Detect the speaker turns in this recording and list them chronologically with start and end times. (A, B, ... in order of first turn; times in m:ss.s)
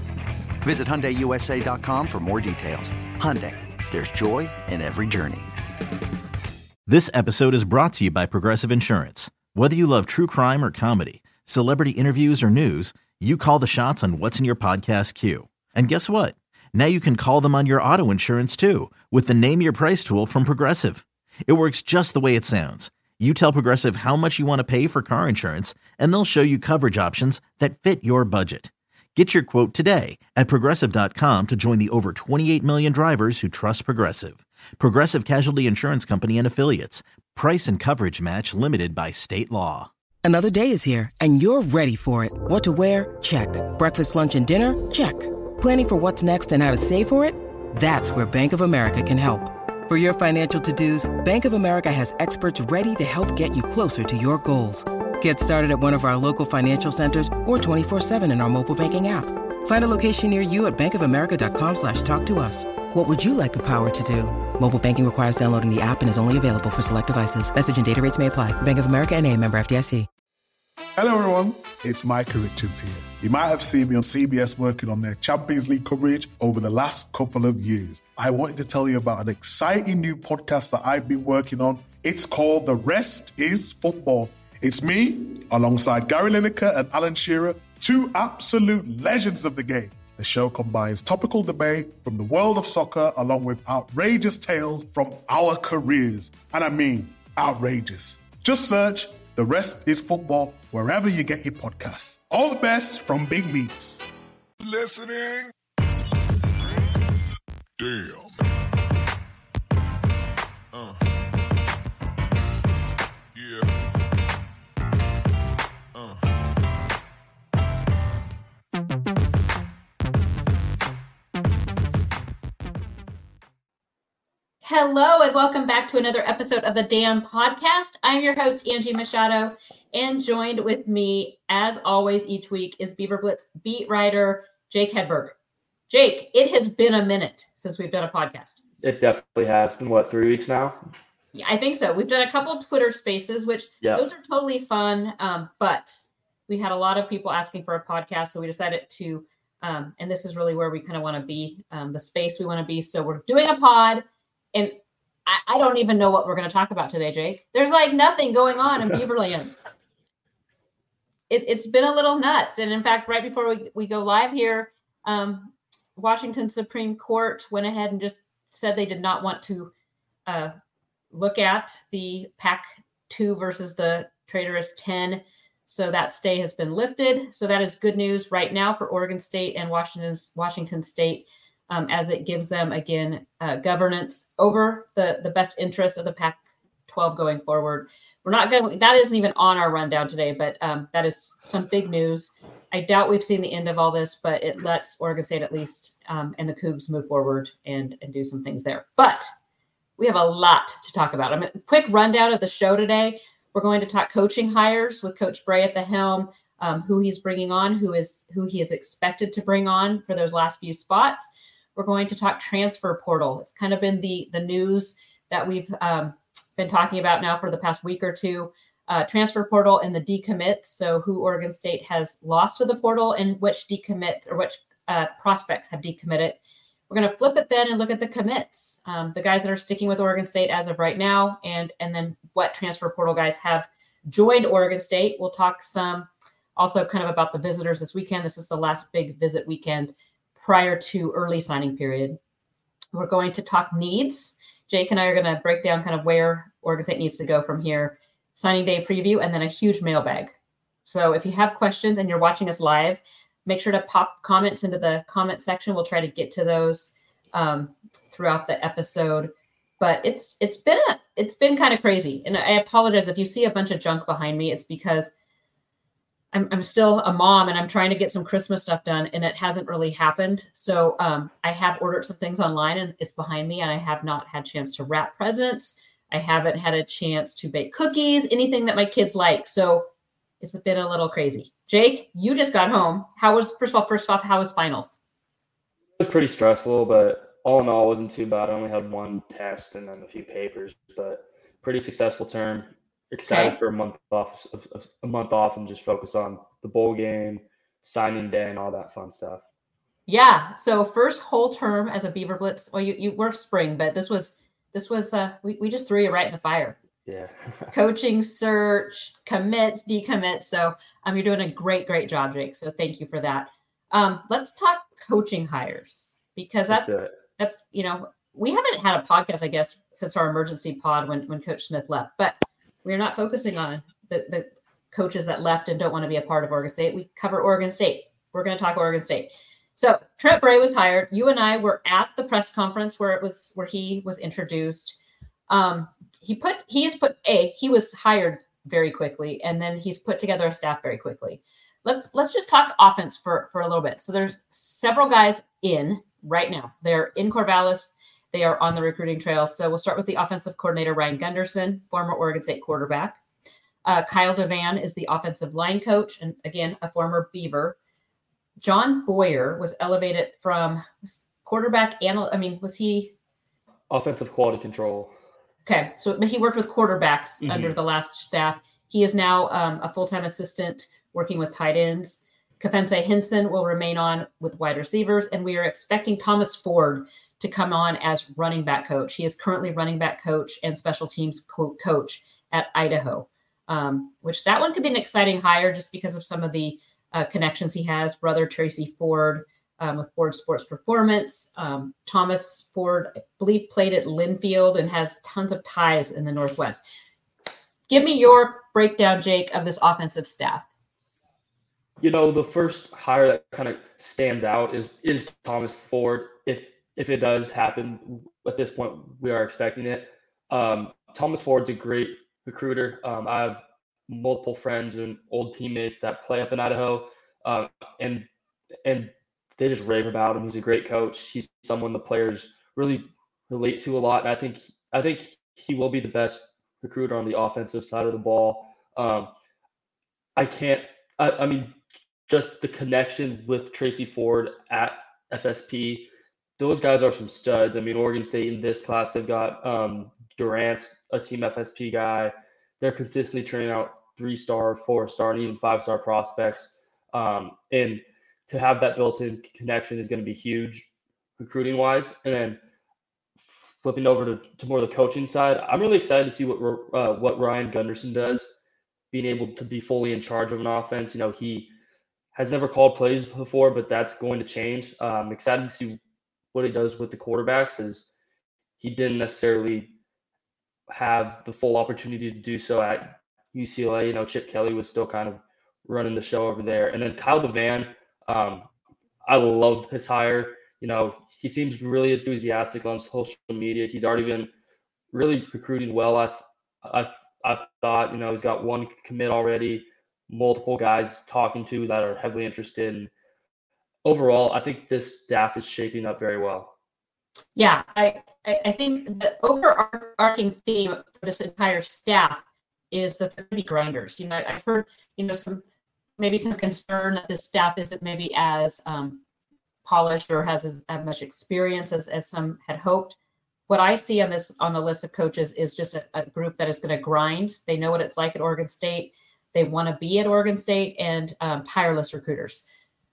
0:00.6-0:05.5 A
0:06.9-0:39.9 B
0:40.2-1:10.1 C
1:11.0-1:44.0 D
1:44.6-1:45.5 E
1:47.8-1:48.4 E
1:50.7-1:51.0 E
1:53.3-1:53.7 E
1:56.0-1:56.2 E
2:04.6-2:15.3 F
2:15.9-2:18.6 F
2:18.8-2:20.8 G
2:21.3-2:34.8 F
2:35.2-2:39.5 F
2:41.3-2:49.7 F
2:50.3-2:50.5 F
2:51.1-3:19.3 F
3:20.0-4:02.2 F
4:02.9-4:10.3 F
4:10.8-4:25.1 F
4:26.3-4:39.9 F
4:40.4-4:45.0 F
4:46.0-4:59.4 G
4:53.3-4:53.6 F
5:00.1-5:06.8 F
5:07.1-5:07.7 G
5:07.7-5:35.0 F
5:16.7-5:17.1 G
5:35.5-5:53.2 F
5:53.8-5:57.8 F
5:58.6-6:03.1 F
6:03.9-6:05.1 G
6:05.7-6:36.8 F
6:07.4-6:07.8 G
6:37.9-6:40.7 F
6:42.0-6:58.3 G
6:58.8-7:09.3 G
7:10.4-7:11.7 G
7:12.3-7:32.6 G
7:33.4-7:38.5 G
7:39.1-7:41.7 G
7:42.3-7:46.0 G
7:46.5-7:48.1 G
7:48.8-7:49.9 G
7:50.9-7:58.7 G
7:59.2-8:04.5 G
8:05.1-8:13.1 G
8:14.0-8:16.7 G
8:17.6-8:25.6 F
8:26.2-8:29.2 F
8:29.8-8:33.2 F
8:33.7-8:42.6 F